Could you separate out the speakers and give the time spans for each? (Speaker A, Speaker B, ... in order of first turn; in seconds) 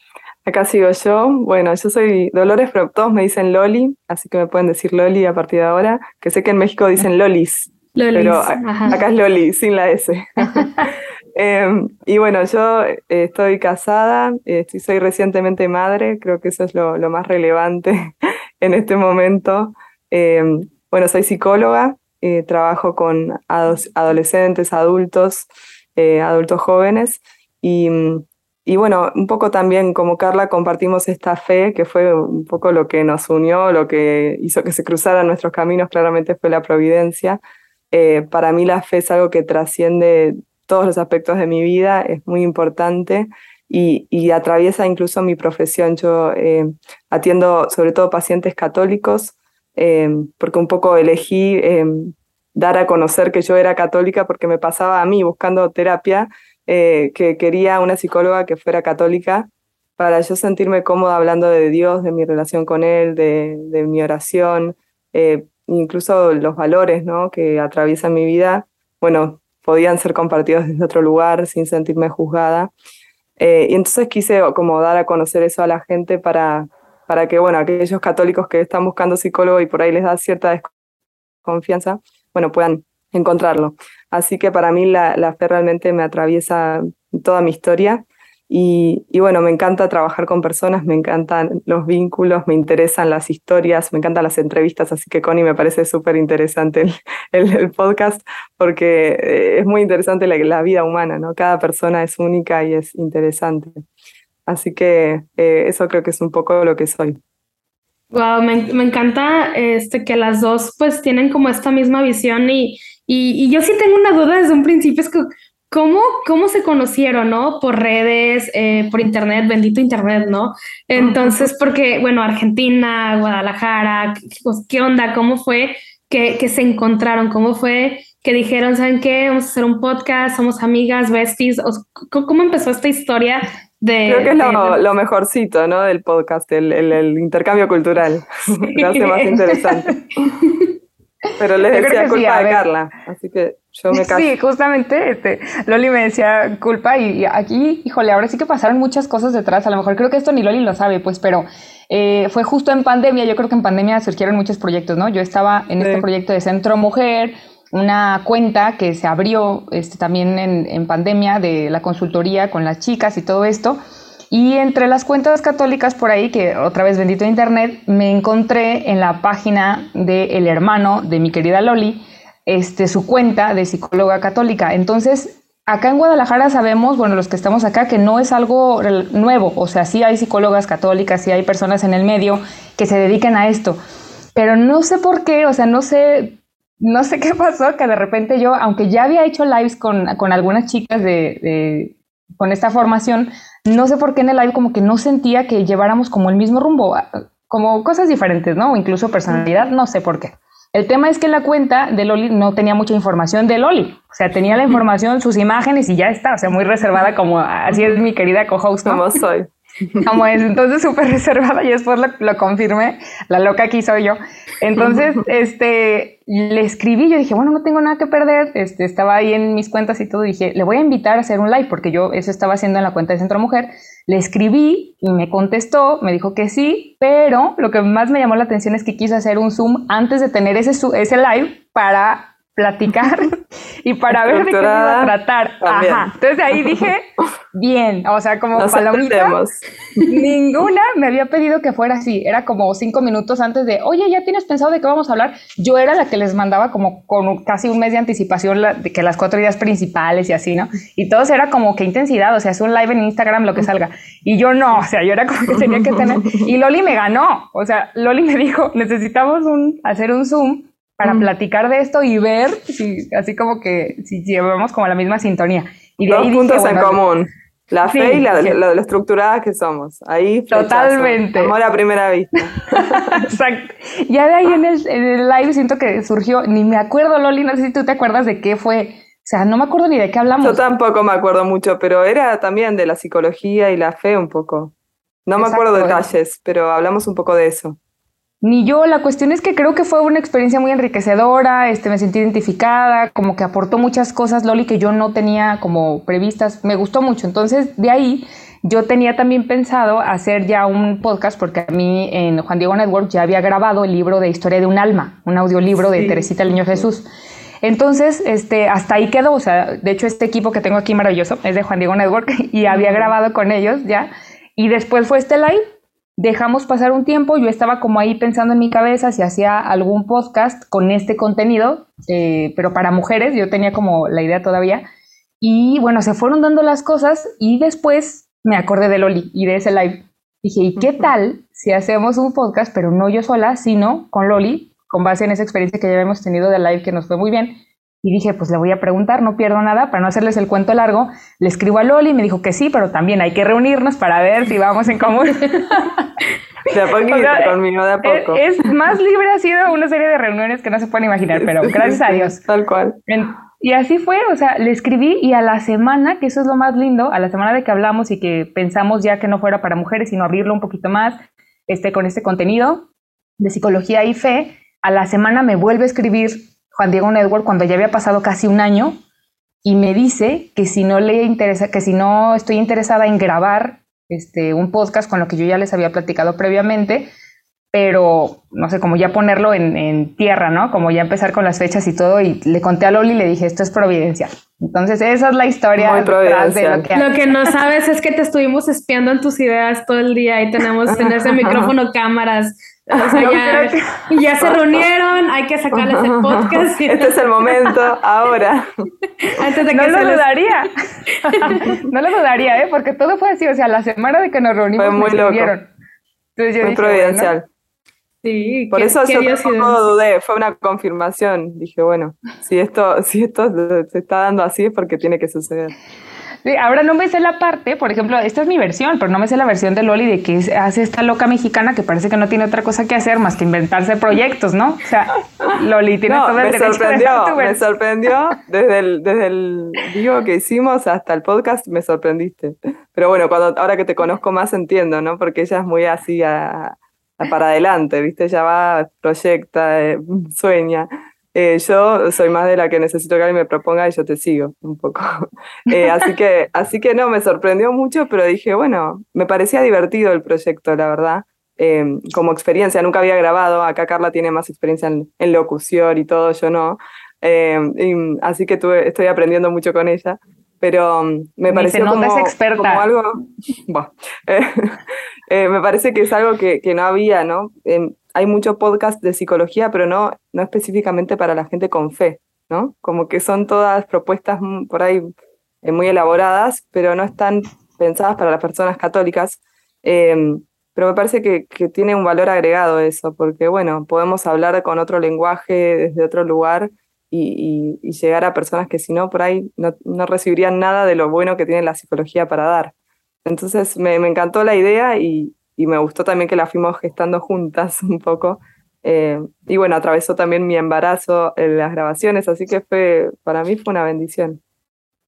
Speaker A: 0.4-37.4, 37.9-72.7, 73.4-80.7, 81.4-103.8, 104.5-107.2, 121.0-121.4, 134.1-140.3, 141.4-144.3, 155.8-156.0, 208.8-210.1, 234.1-236.8, 238.6-240.2, 255.6-256.4, 266.1-273.3, 280.4-284.7, 285.2-287.8, 306.0-306.3, 312.7-313.1, 346.7-348.5, 351.4-353.0, 385.8-386.9, 390.9-391.7, 395.7-398.7, 404.8-405.5, 406.6-407.4, 408.7-415.8, 426.1-475.0, 475.6-492.7, 493.2-504.4
Speaker B: 8.0-8.9, 108.1-134.8, 138.6-139.6, 386.9-397.1, 399.3-400.4, 401.2-401.7, 408.2-409.8
Speaker C: 141.7-142.6, 143.9-163.8, 164.3-183.8, 184.3-209.0, 210.0-239.4, 240.1-267.0, 267.9-268.6, 270.5-271.5, 272.7-280.6, 285.4-286.0, 288.4-307.1, 307.6-315.6, 316.2-324.8, 325.4-346.1, 346.7-352.4, 353.1-361.1, 361.7-362.9, 363.4-369.0, 369.6-377.1, 377.7-387.1, 393.1-394.0, 399.7-400.7, 401.2-405.7, 406.4-407.3, 416.4-427.7, 461.5-462.8